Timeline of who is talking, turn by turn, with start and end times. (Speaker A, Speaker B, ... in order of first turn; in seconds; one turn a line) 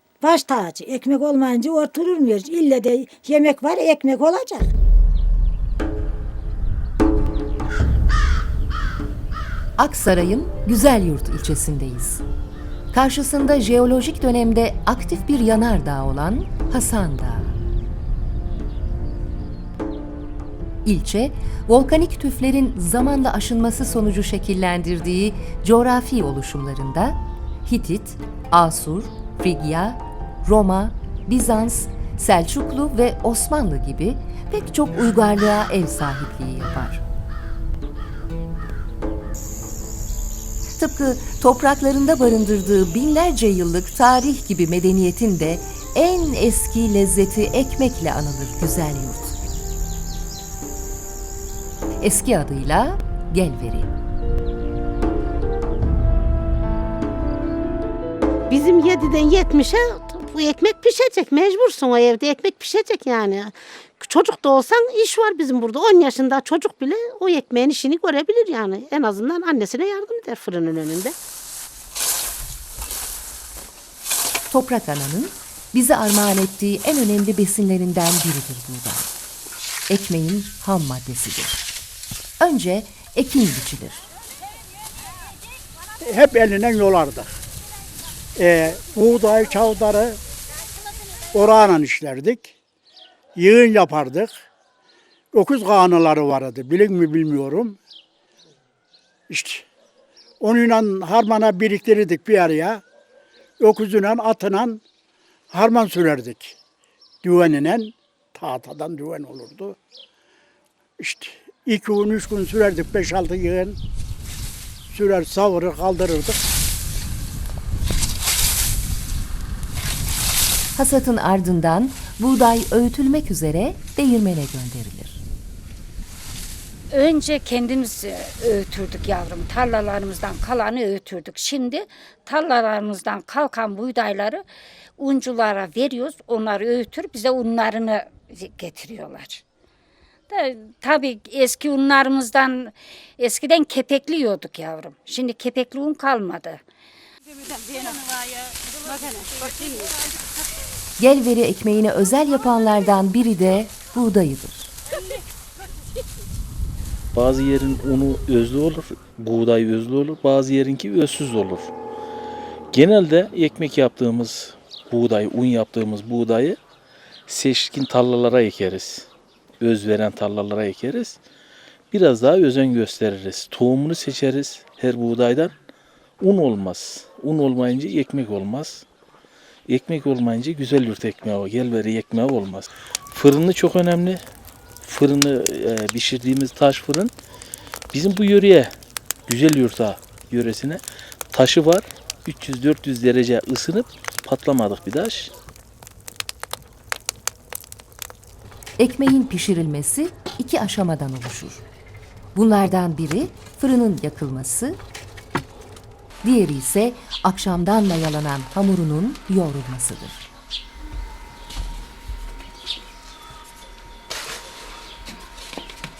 Speaker A: 0.2-4.7
Speaker B: 9.8-12.2
Speaker B: 12.9-17.6
Speaker B: 20.8-37.0
Speaker B: 40.8-49.3
Speaker B: 52.0-53.9
Speaker C: 58.5-71.1
Speaker B: 74.5-79.1
Speaker B: 79.9-81.6
Speaker B: 82.4-84.1
Speaker D: 86.0-87.3
Speaker D: 88.3-90.2
Speaker D: 91.3-92.5
Speaker D: 93.3-94.3
Speaker D: 95.3-97.8
Speaker D: 99.3-99.7
Speaker D: 100.4-102.8
Speaker D: 103.6-104.8
Speaker D: 105.5-106.5
Speaker D: 107.2-109.8
Speaker D: 111.0-113.8
Speaker D: 114.9-116.4
Speaker B: 120.7-125.2
Speaker E: 126.9-134.4
Speaker E: 135.0-139.4
Speaker E: 140.3-146.6
Speaker B: 151.0-154.7
Speaker F: 157.1-161.7
Speaker F: 162.7-166.6
Speaker F: 167.3-169.1
Speaker F: 169.6-171.2
Speaker F: 171.9-175.5
Speaker F: 176.2-178.8
Speaker F: 179.7-184.2
Speaker F: 184.8-187.1
Speaker F: 187.9-188.7
Speaker F: 189.3-195.3
Speaker B: 198.8-201.6
Speaker B: 202.3-204.8
Speaker B: 206.2-210.3